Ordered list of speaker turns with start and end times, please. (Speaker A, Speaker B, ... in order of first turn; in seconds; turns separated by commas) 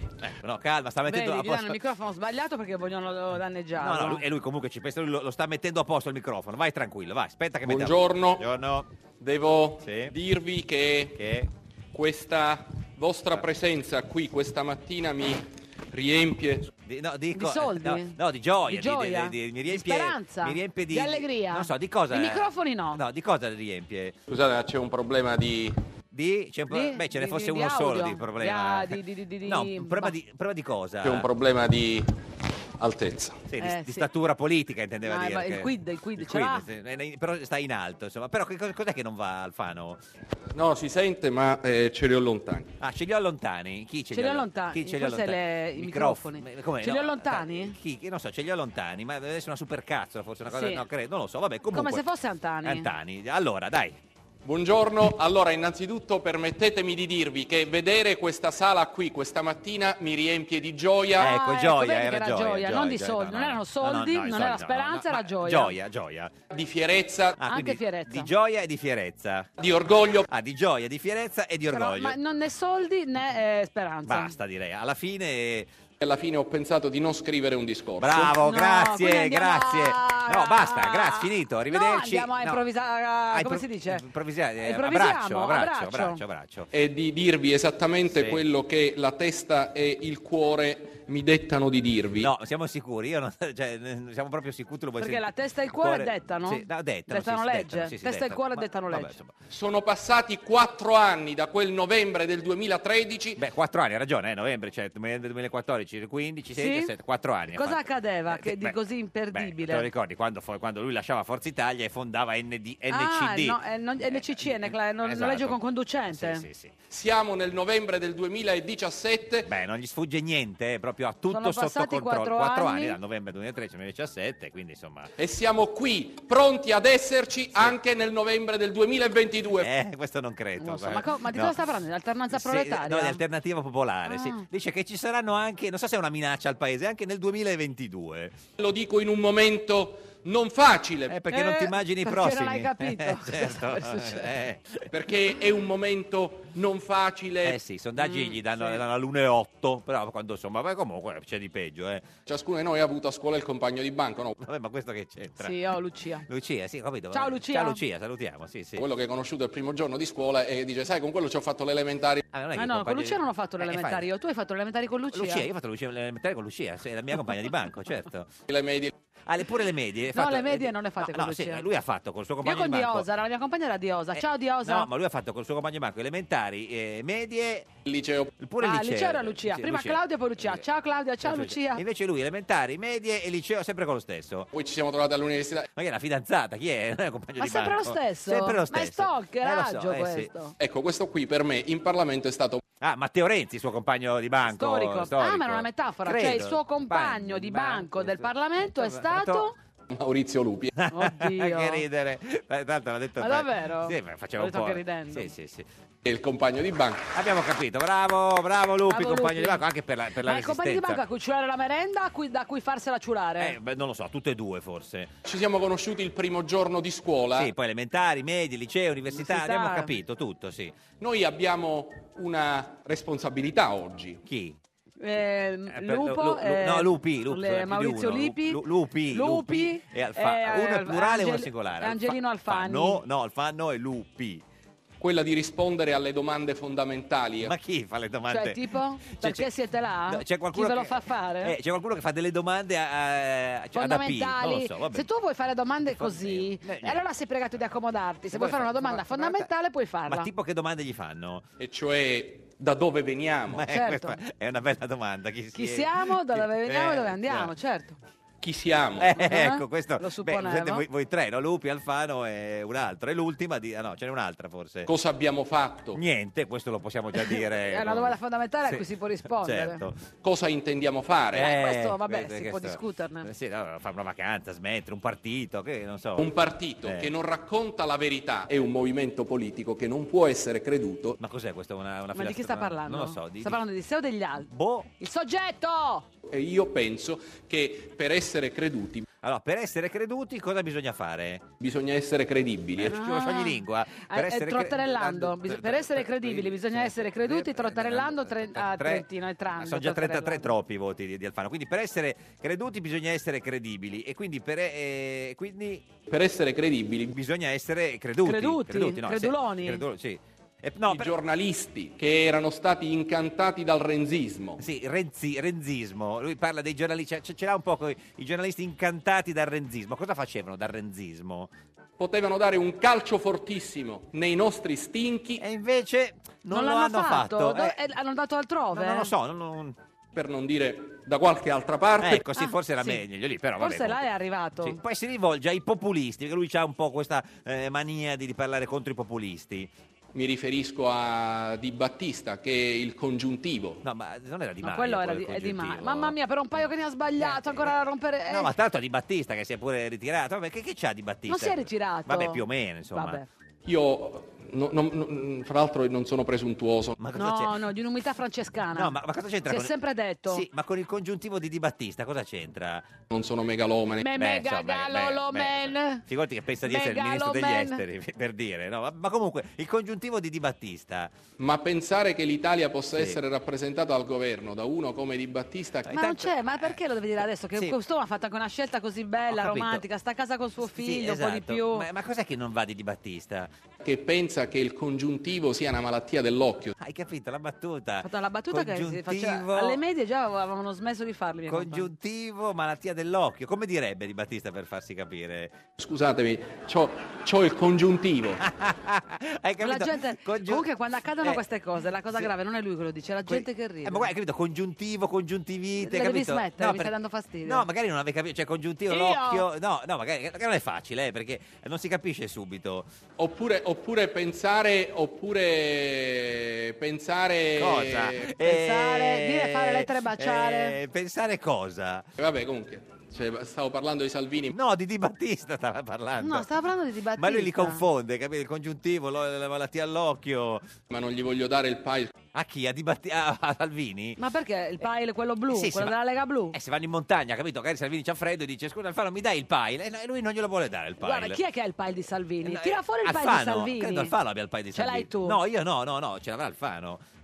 Speaker A: 0.2-1.8, Speaker B: 1.1-4.2, Speaker A: 3.8-8.9, Speaker C: 7.6-8.5, Speaker C: 9.2-11.2, Speaker A: 9.8-10.1, Speaker A: 11.2-11.5, Speaker C: 11.9-16.7, Speaker A: 16.8-24.1, Speaker B: 17.3-23.0, Speaker C: 24.3-25.8, Speaker A: 26.1-31.3, Speaker B: 26.7-30.2, Speaker C: 31.0-32.1, Speaker C: 32.8-33.5, Speaker A: 33.5-40.0, Speaker B: 33.6-34.1, Speaker B: 35.0-36.7, Speaker C: 40.5-42.7, Speaker A: 42.8-52.0, Speaker B: 44.1-47.8, Speaker B: 50.5-50.9, Speaker B: 51.7-52.9, Speaker A: 52.6-54.0, Speaker C: 54.5-61.3, Speaker A: 61.2-66.3, Speaker B: 61.2-65.8, Speaker C: 66.5-67.4, Speaker A: 67.4-69.5, Speaker B: 67.5-68.3, Speaker C: 69.6-70.3, Speaker A: 70.3-72.2, Speaker B: 71.7-74.4, Speaker A: 74.1-75.7, Speaker C: 76.0-78.4, Speaker A: 78.0-82.6, Speaker B: 78.4-84.0, Speaker A: 83.3-86.7, Speaker B: 84.6-86.2, Speaker C: 86.7-92.3, Speaker A: 88.1-88.4, Speaker A: 92.2-99.3, Speaker B: 95.0-99.1, Speaker C: 99.5-103.4, Speaker A: 103.4-108.8, Speaker B: 106.5-106.9, Speaker B: 107.5-109.9, Speaker A: 109.3-116.7, Speaker B: 112.9-116.5, Speaker C: 116.9-119.5, Speaker A: 119.5-125.1, Speaker B: 121.3-123.0, Speaker C: 125.2-129.7, Speaker A: 129.6-131.6, Speaker B: 130.6-133.2, Speaker A: 132.3-138.4, Speaker B: 134.1-134.5, Speaker C: 138.6-141.2, Speaker A: 141.1-144.9, Speaker B: 141.3-144.3, Speaker C: 144.9-147.6, Speaker A: 147.4-152.1, Speaker B: 148.0-148.8, Speaker C: 152.3-154.3, Speaker A: 154.4-155.7, Speaker B: 155.4-156.3, Speaker A: 156.3-158.9, Speaker B: 157.1-157.8, Speaker C: 158.8-162.3, Speaker A: 162.3-164.1, Speaker B: 162.6-165.5, Speaker A: 165.1-168.3, Speaker C: 168.5-168.9, Speaker A: 169.3-173.1, Speaker B: 170.1-171.7, Speaker B: 172.4-174.9, Speaker A: 174.2-177.7, Speaker C: 177.9-178.3, Speaker A: 178.4-180.7, Speaker B: 178.6-181.8, Speaker A: 181.2-184.5, Speaker C: 184.5-185.7, Speaker A: 185.8-190.3, Speaker B: 187.4-190.5, Speaker C: 190.6-192.6, Speaker A: 192.8-199.5, Speaker B: 194.4-199.6, Speaker C: 199.9-200.7, Speaker A: 200.8-205.7, Speaker B: 200.9-201.8, Speaker B: 203.2-205.3, Speaker C: 206.0-207.1, Speaker A: 207.1-211.0, Speaker B: 208.9-209.6, Speaker B: 210.2-213.6, Speaker A: 213.4-215.1, Speaker C: 215.2-217.5, Speaker A: 217.3-220.8, Speaker B: 219.1-219.9, Speaker C: 221.0-224.2, Speaker A: 224.2-224.6, Speaker B: 225.0-233.0, Speaker A: 225.7-234.4, Speaker C: 235.0-237.5, Speaker A: 237.4-239.6, Speaker B: 238.3-241.6, Speaker A: 240.1-245.1, Speaker B: 243.8-250.3, Speaker A: 245.9-247.0, Speaker A: 248.3-249.5, Speaker A: 250.1-251.4, Speaker C: 251.6-253.7, Speaker A: 253.5-257.5, Speaker B: 253.7-254.2, Speaker B: 255.5-258.0, Speaker C: 258.4-259.1, Speaker A: 259.0-264.9, Speaker B: 259.2-260.9, Speaker C: 264.9-266.0, Speaker A: 265.9-270.0, Speaker B: 267.1-269.8, Speaker C: 270.2-271.5, Speaker A: 271.3-276.3, Speaker B: 271.4-273.3, Speaker C: 276.2-281.2, Speaker A: 276.8-277.1, Speaker A: 281.2-283.6, Speaker B: 282.1-286.1, Speaker A: 284.4-284.9, Speaker C: 286.3-289.1, Speaker A: 289.2-291.4, Speaker C: 291.6-293.0, Speaker A: 292.8-305.9, Speaker B: 292.9-300.5, Speaker C: 306.1-307.1, Speaker A: 307.1-311.1, Speaker B: 308.2-309.8, Speaker C: 310.9-314.6, Speaker A: 314.6-321.5, Speaker C: 322.0-325.4, Speaker A: 325.4-327.8, Speaker B: 326.5-329.1, Speaker A: 328.7-329.8, Speaker C: 330.1-332.2, Speaker A: 332.0-334.1, Speaker B: 332.4-333.0, Speaker B: 333.6-334.8, Speaker A: 334.6-339.7, Speaker C: 340.1-343.8, Speaker A: 343.8-346.2, Speaker B: 344.6-348.5, Speaker A: 347.2-347.8, Speaker A: 348.3-353.2, Speaker B: 351.3-353.3, Speaker C: 353.7-356.9, Speaker A: 357.0-357.6, Speaker B: 357.2-360.4, Speaker A: 358.7-359.8, Speaker A: 360.3-362.9, Speaker C: 363.1-364.1, Speaker B: 364.0-366.0, Speaker A: 364.1-371.1, Speaker B: 366.6-367.8, Speaker C: 371.4-375.9, Speaker A: 372.9-373.2, Speaker A: 375.9-376.8, Speaker B: 375.9-381.9, Speaker A: 379.3-379.8, Speaker A: 380.6-383.5, Speaker C: 383.8-386.8, Speaker A: 386.8-389.8, Speaker B: 388.0-391.9, Speaker A: 391.5-395.6, Speaker C: 395.8-398.4, Speaker A: 398.4-400.7, Speaker B: 399.6-404.1, Speaker A: 403.3-406.9, Speaker B: 405.8-407.7, Speaker A: 407.4-412.9, Speaker B: 408.9-409.5, Speaker C: 413.2-418.3, Speaker A: 417.6-422.1, Speaker B: 418.4-420.8, Speaker C: 422.2-424.5, Speaker A: 424.5-426.5, Speaker B: 426.2-427.9, Speaker A: 427.2-430.7, Speaker C: 430.9-432.1, Speaker A: 432.3-434.2, Speaker B: 434.2-436.6, Speaker A: 435.5-436.0, Speaker A: 436.5-441.4, Speaker B: 441.0-444.1, Speaker A: 442.4-447.0, Speaker B: 444.7-445.4